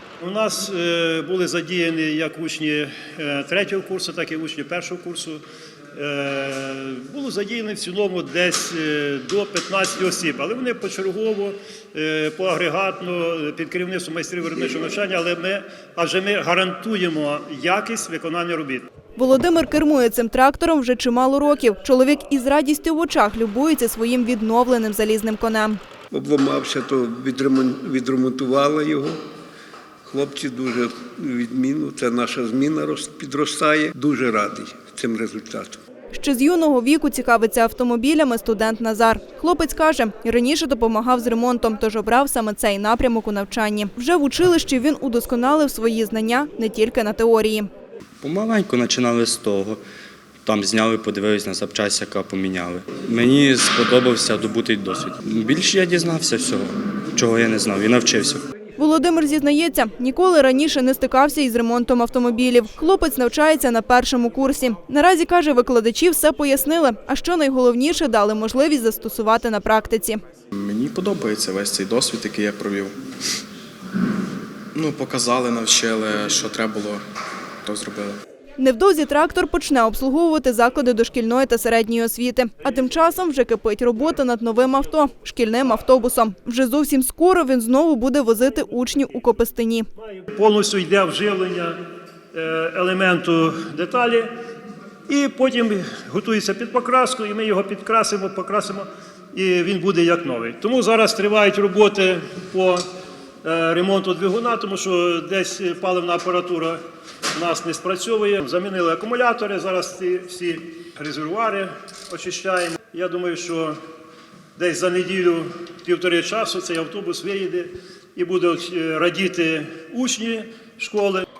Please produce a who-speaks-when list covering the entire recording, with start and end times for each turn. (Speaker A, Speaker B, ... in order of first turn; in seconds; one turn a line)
Speaker A: 0.2-5.4
Speaker A: 5.9-18.8
Speaker B: 19.2-25.8
Speaker C: 26.1-29.2
Speaker C: 30.0-35.8
Speaker B: 36.1-47.7
Speaker D: 48.2-49.8
Speaker D: 50.4-58.4
Speaker B: 58.8-70.2
Speaker E: 70.5-72.9
Speaker E: 74.7-77.0
Speaker E: 77.6-78.2
Speaker B: 78.6-89.9
Speaker A: 90.0-91.8
Speaker A: 92.3-94.3
Speaker A: 95.1-102.8
Speaker A: 103.4-106.8
Speaker A: 107.3-113.8
Speaker A: 114.5-121.2